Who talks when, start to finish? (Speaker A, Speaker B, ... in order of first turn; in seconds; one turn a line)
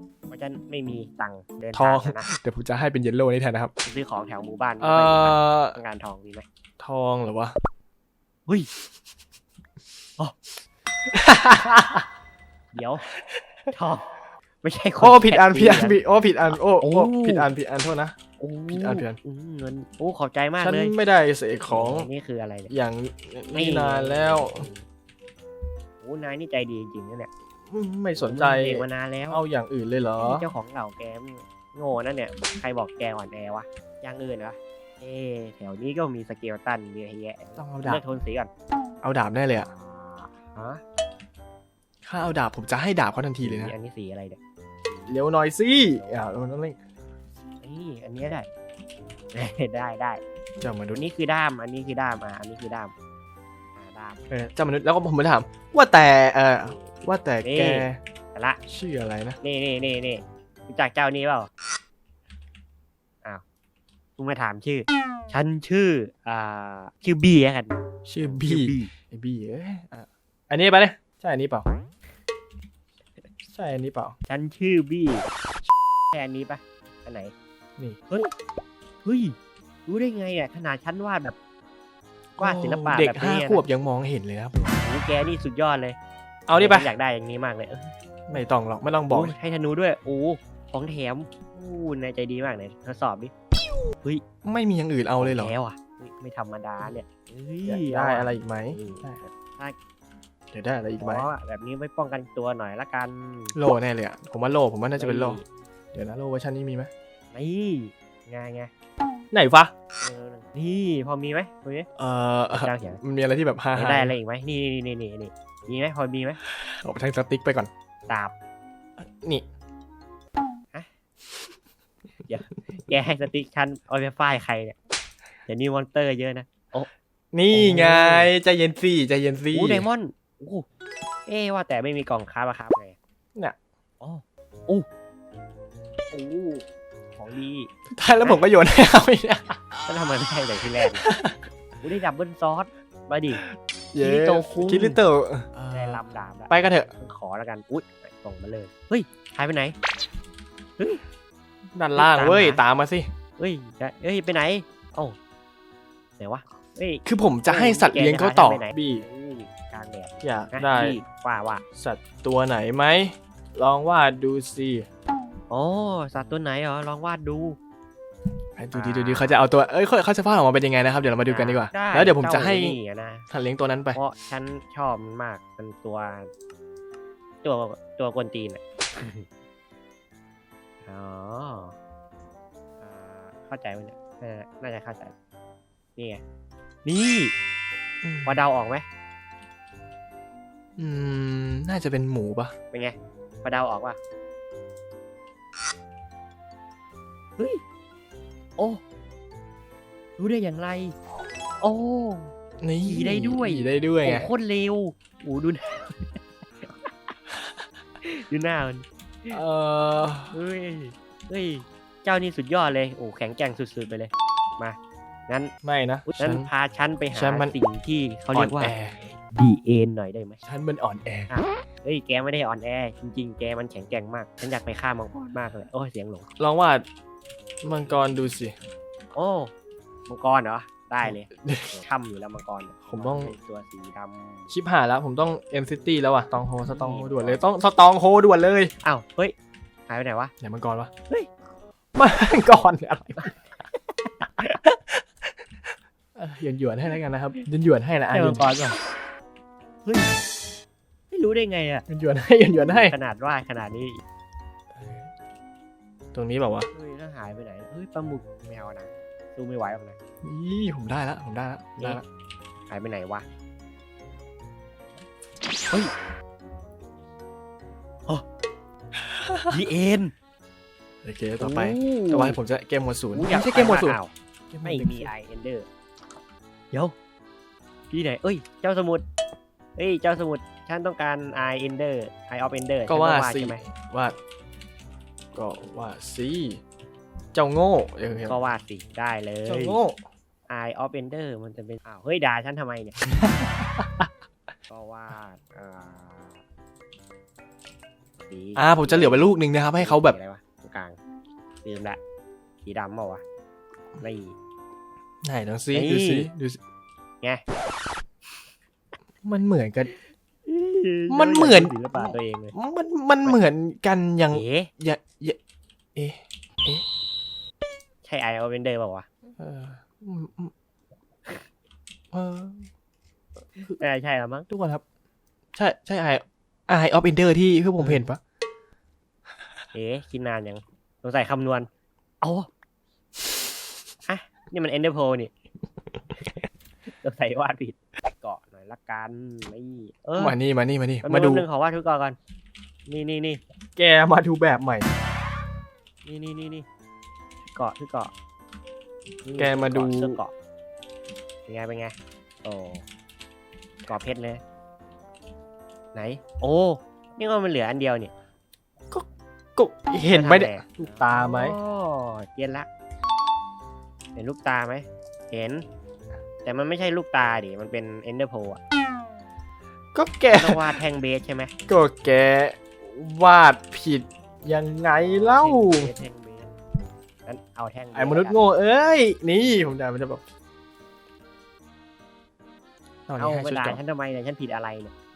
Speaker A: 0.3-2.3
Speaker B: 1.7-3.7
Speaker A: 3.9-6.5
Speaker B: 4.8-5.8
Speaker B: 6.8-7.5
Speaker B: 11.1-12.1
Speaker A: 12.8-13.1
Speaker B: 13.2-13.7
Speaker A: 13.7-14.1
Speaker A: 14.6-16.0
Speaker B: 15.0-18.1
Speaker A: 16.5-17.5
Speaker A: 18.4-20.9
Speaker B: 18.7-19.2
Speaker B: 20.6-22.1
Speaker A: 21.6-22.7
Speaker B: 22.7-24.7
Speaker A: 23.5-24.8
Speaker A: 26.0-27.3
Speaker B: 27.7-30.5
Speaker A: 28.2-29.4
Speaker A: 30.2-38.5
Speaker B: 37.6-38.0
Speaker B: 39.0-39.7
Speaker A: 40.1-40.8
Speaker B: 42.0-43.7
Speaker A: 43.4-44.4
Speaker B: 45.1-46.8
Speaker A: 46.0-46.3
Speaker A: 47.6-48.5
Speaker A: 49.3-50.2
Speaker B: 50.6-51.0
Speaker A: 50.9-52.9
Speaker A: 53.8-54.2
Speaker B: 54.3-58.0
Speaker A: 56.6-58.6
Speaker B: 58.7-59.4
Speaker A: 59.4-61.5
Speaker A: 64.2-68.9
Speaker B: 68.1-71.7
Speaker B: 73.5-74.2
Speaker A: 74.3-75.2
Speaker A: 76.1-77.3
Speaker A: 79.0-79.4
Speaker A: 79.9-81.4
Speaker A: 82.4-83.6
Speaker B: 82.4-84.6
Speaker A: 84.6-86.0
Speaker B: 86.5-86.9
Speaker A: 86.6-88.4
Speaker B: 88.3-89.3
Speaker A: 89.1-93.3
Speaker B: 94.4-95.5
Speaker A: 95.2-99.8
Speaker B: 97.7-99.2
Speaker B: 100.5-101.3
Speaker A: 101.0-103.6
Speaker B: 103.5-105.4
Speaker A: 105.0-105.5
Speaker B: 105.9-106.9
Speaker A: 107.3-108.7
Speaker B: 109.3-109.7
Speaker A: 110.0-111.9
Speaker B: 112.0-114.2
Speaker A: 112.5-113.0
Speaker A: 113.8-116.4
Speaker B: 116.5-117.7
Speaker A: 118.1-118.3
Speaker B: 119.0-119.5
Speaker A: 122.3-124.8
Speaker A: 125.5-126.9
Speaker B: 127.3-129.9
Speaker A: 127.5-128.3
Speaker A: 129.5-130.7
Speaker A: 131.3-133.0
Speaker A: 134.0-134.9
Speaker A: 136.1-136.6
Speaker A: 137.2-137.7
Speaker B: 137.9-139.6
Speaker A: 139.9-141.0
Speaker B: 141.0-141.4
Speaker A: 141.8-143.4
Speaker B: 143.4-146.9
Speaker A: 144.0-145.0
Speaker A: 145.7-149.8
Speaker B: 151.8-153.1
Speaker A: 151.9-152.6
Speaker A: 153.4-155.2
Speaker A: 156.2-161.6
Speaker B: 157.1-159.1
Speaker B: 160.2-161.0
Speaker B: 161.8-164.9
Speaker A: 165.5-167.6
Speaker B: 168.6-172.8
Speaker A: 168.7-169.4
Speaker A: 171.3-173.3
Speaker B: 173.3-174.0
Speaker A: 173.9-176.3
Speaker A: 177.4-179.3
Speaker A: 180.9-181.7
Speaker A: 182.8-185.1
Speaker A: 186.8-187.3
Speaker B: 188.0-188.4
Speaker A: 188.2-188.8
Speaker B: 190.8-192.5
Speaker A: 192.7-194.0
Speaker A: 200.2-200.9
Speaker A: 201.6-202.3
Speaker B: 202.6-204.3
Speaker A: 202.8-207.1
Speaker A: 208.0-209.4
Speaker B: 209.3-210.3
Speaker A: 210.3-214.8
Speaker A: 215.3-215.5
Speaker B: 215.6-216.5
Speaker A: 216.1-220.4
Speaker B: 217.2-217.6
Speaker B: 218.3-219.0
Speaker B: 220.4-221.3
Speaker A: 221.3-226.3
Speaker B: 226.4-226.8
Speaker B: 227.6-228.5
Speaker A: 229.2-229.5
Speaker A: 230.1-234.5
Speaker B: 231.0-231.8
Speaker B: 232.9-233.3
Speaker B: 234.5-238.7
Speaker A: 236.7-237.4
Speaker A: 238.8-239.3
Speaker A: 239.9-240.3
Speaker B: 240.4-240.9
Speaker B: 242.0-243.3
Speaker A: 244.1-244.6
Speaker B: 244.6-245.0
Speaker B: 246.2-248.5
Speaker A: 248.1-248.8
Speaker A: 249.8-250.1
Speaker A: 251.1-251.8
Speaker B: 251.9-252.9
Speaker A: 252.6-254.0
Speaker B: 254.8-255.1
Speaker B: 256.1-256.7
Speaker A: 256.7-260.0
Speaker B: 260.2-262.0
Speaker A: 262.7-263.3
Speaker B: 269.0-269.6
Speaker A: 269.5-270.1
Speaker B: 271.0-274.0
Speaker A: 271.4-272.4
Speaker A: 273.1-274.1
Speaker B: 274.5-275.1
Speaker A: 274.6-275.7
Speaker A: 277.9-279.0
Speaker A: 279.8-283.6
Speaker B: 282.9-284.2
Speaker B: 285.3-286.6
Speaker B: 287.3-288.4
Speaker A: 288.2-289.8
Speaker B: 289.5-290.0
Speaker A: 290.5-293.0
Speaker B: 293.0-294.1
Speaker A: 294.7-296.4
Speaker A: 298.2-301.0
Speaker B: 298.6-300.2
Speaker A: 301.6-302.0
Speaker A: 302.6-303.2
Speaker A: 304.0-304.4
Speaker B: 305.2-306.6
Speaker A: 305.7-306.3
Speaker B: 309.2-309.9
Speaker A: 309.9-312.5
Speaker B: 311.1-315.4
Speaker A: 314.3-314.7
Speaker B: 315.9-316.8
Speaker A: 318.0-319.1
Speaker B: 319.4-320.5
Speaker B: 322.1-322.7
Speaker A: 323.8-324.5
Speaker B: 324.5-324.8
Speaker B: 325.6-328.2
Speaker A: 327.8-328.0
Speaker A: 329.7-331.7
Speaker A: 332.2-332.5
Speaker A: 334.1-335.3
Speaker A: 337.0-340.4
Speaker B: 340.2-341.4
Speaker A: 341.0-342.2
Speaker A: 342.9-343.4
Speaker B: 343.8-344.9
Speaker A: 346.1-346.6
Speaker A: 347.6-348.1
Speaker A: 349.2-350.3
Speaker B: 349.4-350.2
Speaker A: 351.5-352.8
Speaker A: 353.9-354.4
Speaker A: 355.9-358.1
Speaker B: 358.9-361.6
Speaker A: 360.1-362.7
Speaker A: 364.2-365.6
Speaker A: 366.4-368.6
Speaker B: 369.9-370.7
Speaker A: 370.3-371.5
Speaker B: 371.7-375.9
Speaker A: 375.1-376.5
Speaker A: 377.3-378.4
Speaker B: 377.9-380.2
Speaker B: 383.1-383.8
Speaker A: 383.2-384.9